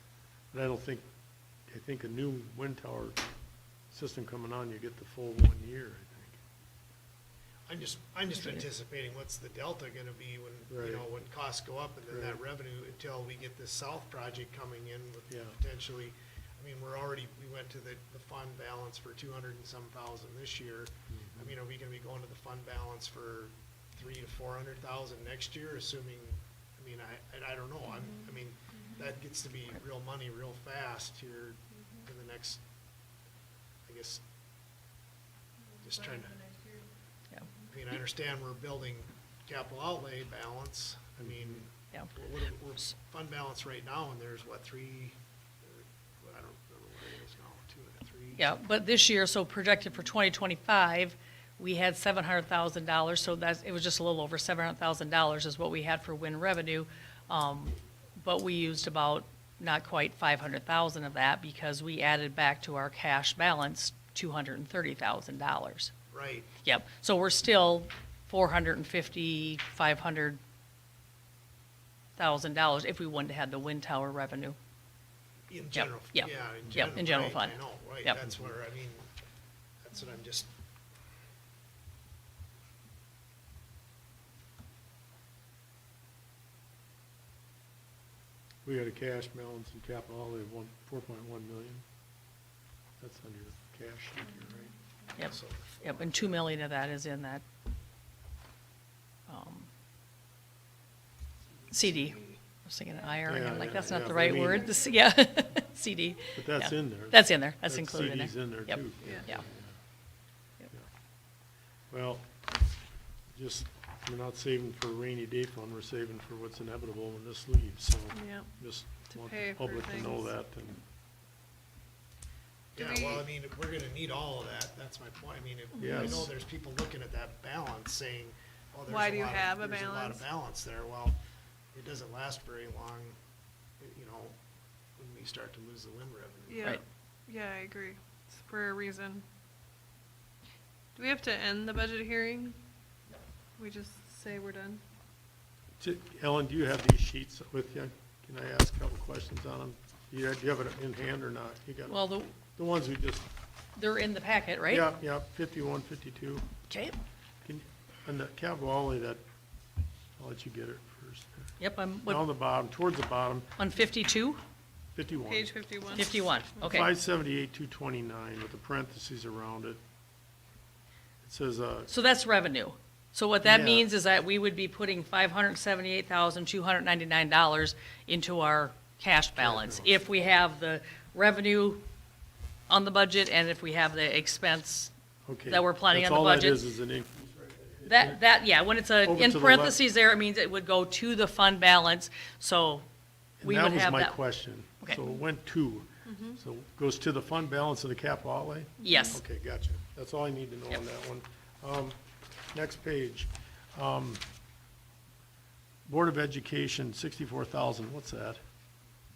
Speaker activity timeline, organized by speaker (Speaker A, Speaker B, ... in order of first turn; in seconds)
Speaker A: 0.5-1.0, 1.7-3.2, 3.9-6.4, 10.7-11.1, 12.1-12.4, 15.3-15.6, 21.1-21.5, 41.2-41.5, 88.6-91.8, 93.0-94.7, 103.2-104.7, 106.3-109.8, 111.9-112.3, 113.3-120.8, 125.8-126.3, 145.8-153.3, 154.7-156.5, 157.4-159.2, 160.2-161.3, 162.1-163.5, 164.9-165.5, 166.6-169.8, 171.2-171.9, 173.4-173.9, 179.4-179.9, 185.3-188.2, 189.0-189.8, 193.4-202.0, 202.5-204.2, 205.8-208.4
Speaker B: 7.7-32.6, 33.9-34.2, 35.8-36.4, 37.7-48.5, 66.1-66.5, 75.5-79.1, 79.8-80.5, 95.2-96.4, 122.8-131.2, 131.7-133.2, 133.8-134.3, 135.0-136.8
Speaker C: 8.3-8.6, 48.4-65.9, 66.6-70.4, 72.2-74.5, 75.7-78.2, 95.2-97.4, 99.3-99.7, 101.7-109.4, 151.9-152.3, 153.8-154.9, 156.7-157.0, 161.6-162.2, 163.6-164.4, 165.9-166.9, 171.9-181.8, 182.7-184.9, 185.4-186.7, 187.8-192.9, 193.4-194.2, 198.8-199.2
Speaker D: 36.2-36.8, 109.0-109.3, 118.1-118.5, 119.0-120.3, 122.8-123.2, 125.7-126.3, 128.9-130.2, 136.5-139.2, 140.9-142.6, 143.6-144.8, 165.2-166.2, 196.1-196.4, 198.8-199.2